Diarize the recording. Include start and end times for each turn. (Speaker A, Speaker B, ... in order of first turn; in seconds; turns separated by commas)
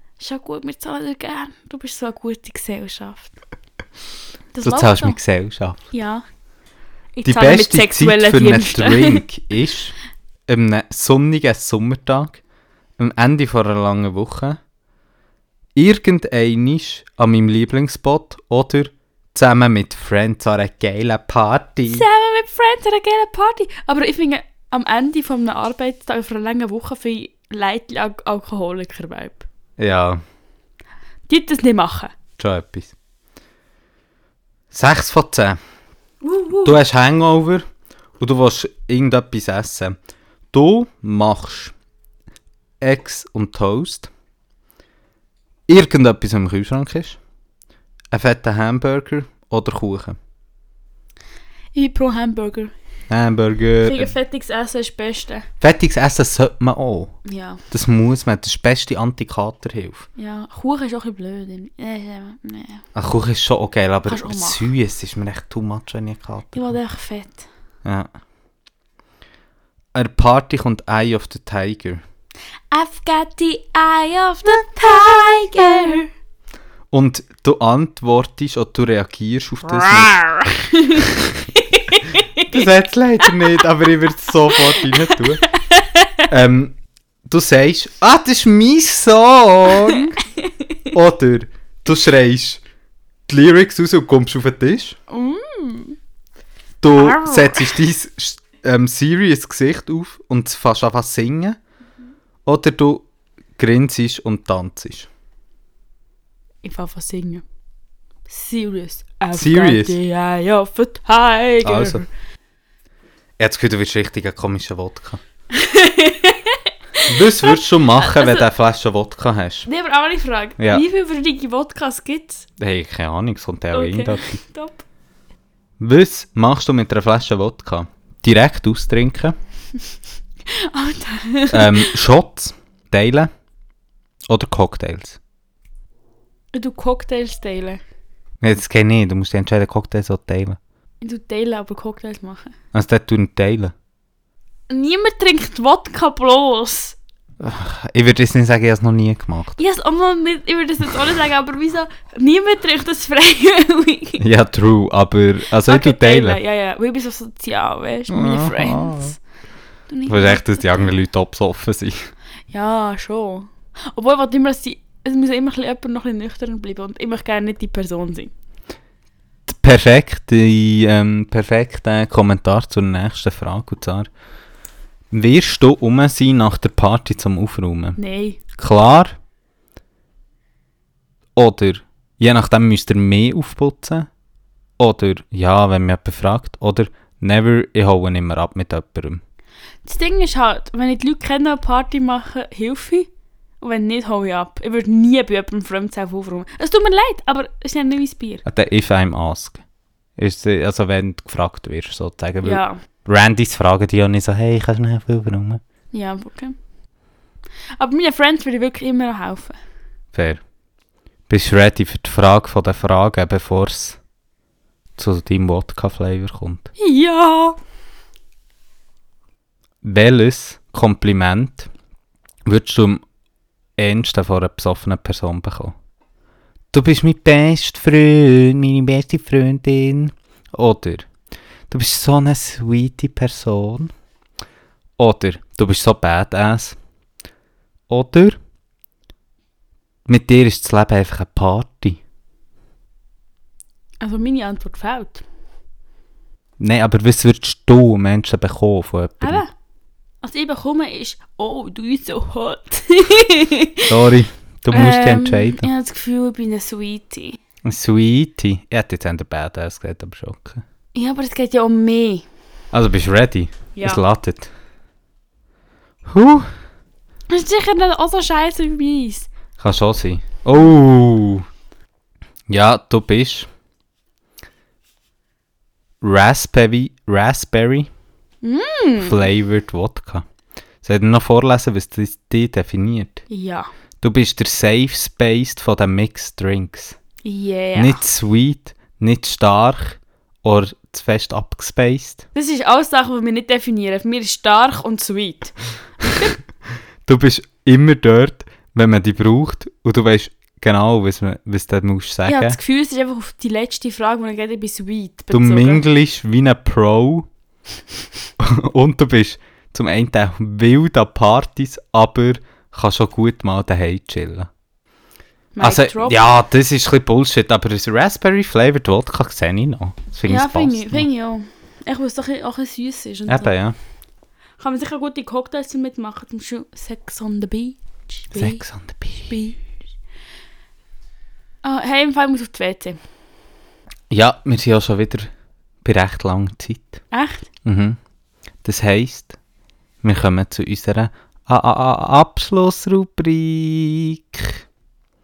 Speaker A: 0.2-3.3, Speaker A: 4.5-5.2, Speaker B: 4.6-5.8, Speaker A: 5.9-6.2, Speaker A: 7.2-9.2, Speaker B: 7.2-9.9, Speaker B: 10.5-12.4, Speaker B: 13.0-14.6, Speaker B: 15.8-22.1, Speaker A: 21.9-29.4, Speaker B: 29.8-30.2, Speaker A: 31.3-32.1, Speaker B: 32.4-32.9, Speaker B: 34.7-35.6, Speaker A: 36.2-36.8, Speaker B: 36.6-37.6, Speaker B: 38.2-40.0, Speaker B: 40.5-41.7, Speaker B: 42.8-44.1, Speaker B: 45.7-47.2, Speaker B: 48.1-50.2, Speaker A: 51.7-52.7, Speaker B: 53.1-54.1, Speaker A: 53.8-55.5, Speaker B: 55.6-57.2, Speaker A: 57.2-57.6, Speaker B: 57.7-60.1, Speaker A: 60.2-62.8, Speaker B: 62.9-66.7, Speaker A: 64.1-64.7, Speaker A: 66.5-67.5, Speaker B: 67.8-68.1, Speaker B: 69.9-72.0, Speaker A: 72.7-76.1, Speaker B: 76.9-80.2, Speaker A: 79.8-82.5, Speaker B: 82.4-85.4, Speaker A: 84.7-84.9, Speaker A: 85.5-86.2, Speaker B: 86.3-86.8, Speaker B: 87.3-90.2, Speaker A: 89.7-90.5, Speaker B: 90.9-92.6, Speaker B: 93.3-95.0, Speaker A: 95.1-96.0, Speaker B: 96.8-101.6, Speaker A: 96.9-97.8, Speaker B: 102.4-105.1, Speaker A: 106.6-107.4, Speaker A: 108.3-112.0, Speaker B: 109.3-110.0, Speaker B: 111.6-112.0, Speaker B: 113.4-115.2, Speaker A: 115.5-118.5, Speaker B: 117.1-119.7, Speaker A: 119.7-122.5, Speaker B: 120.6-120.8, Speaker B: 122.6-124.4, Speaker A: 123.7-124.8, Speaker B: 125.8-129.3, Speaker A: 130.5-131.9, Speaker B: 131.5-133.3, Speaker B: 134.3-135.2, Speaker A: 136.5-137.8, Speaker B: 138.4-140.6, Speaker A: 141.0-142.5, Speaker B: 142.7-143.7, Speaker A: 144.7-147.0, Speaker B: 147.4-149.6, Speaker A: 149.6-154.2, Speaker B: 154.2-156.4, Speaker A: 155.7-159.2, Speaker B: 158.1-159.1, Speaker A: 159.9-160.6, Speaker B: 160.1-162.1, Speaker A: 162.5-168.3, Speaker B: 169.5-174.1, Speaker B: 175.1-178.0, Speaker A: 178.0-178.4, Speaker B: 178.6-179.2, Speaker B: 181.3-184.1, Speaker B: 184.8-189.2, Speaker A: 189.8-193.1, Speaker A: 193.6-198.4, Speaker B: 198.4-199.6, Speaker B: 200.2-205.6, Speaker A: 202.4-202.8, Speaker A: 205.9-206.5, Speaker A: 207.8-209.6, Speaker B: 210.1-210.4, Speaker B: 211.3-214.0, Speaker B: 215.0-216.7, Speaker A: 216.8-217.6, Speaker B: 219.8-221.7, Speaker B: 222.4-223.0, Speaker B: 223.8-225.7, Speaker B: 226.7-231.1, Speaker B: 231.7-233.9, Speaker B: 235.0-236.8, Speaker B: 237.9-238.4, Speaker B: 240.1-242.0, Speaker A: 244.0-245.2, Speaker B: 246.6-249.4, Speaker A: 249.2-249.5, Speaker A: 250.2-253.9, Speaker B: 253.9-255.7, Speaker A: 254.7-257.4, Speaker B: 257.6-260.6, Speaker A: 260.9-262.2, Speaker B: 262.7-264.5, Speaker A: 263.8-264.0, Speaker B: 266.1-266.5, Speaker A: 267.3-269.3, Speaker B: 269.6-271.4, Speaker B: 272.5-273.5, Speaker B: 276.0-277.9, Speaker A: 278.4-279.2, Speaker B: 279.0-280.2, Speaker B: 280.8-283.2, Speaker A: 283.3-283.7, Speaker B: 284.0-286.9, Speaker A: 287.2-288.0, Speaker B: 287.8-292.2, Speaker A: 292.3-296.4, Speaker B: 297.1-302.6, Speaker A: 302.3-305.8, Speaker B: 305.3-307.3, Speaker B: 308.4-314.5, Speaker A: 315.5-316.4, Speaker B: 315.6-321.1, Speaker A: 320.2-323.5, Speaker B: 323.3-323.8, Speaker A: 324.6-328.6, Speaker B: 328.3-329.3, Speaker A: 329.2-329.6, Speaker A: 331.6-333.0, Speaker B: 334.1-335.3, Speaker B: 335.8-337.0, Speaker A: 337.1-337.5, Speaker B: 337.6-338.0, Speaker B: 338.6-339.4, Speaker B: 340.0-344.6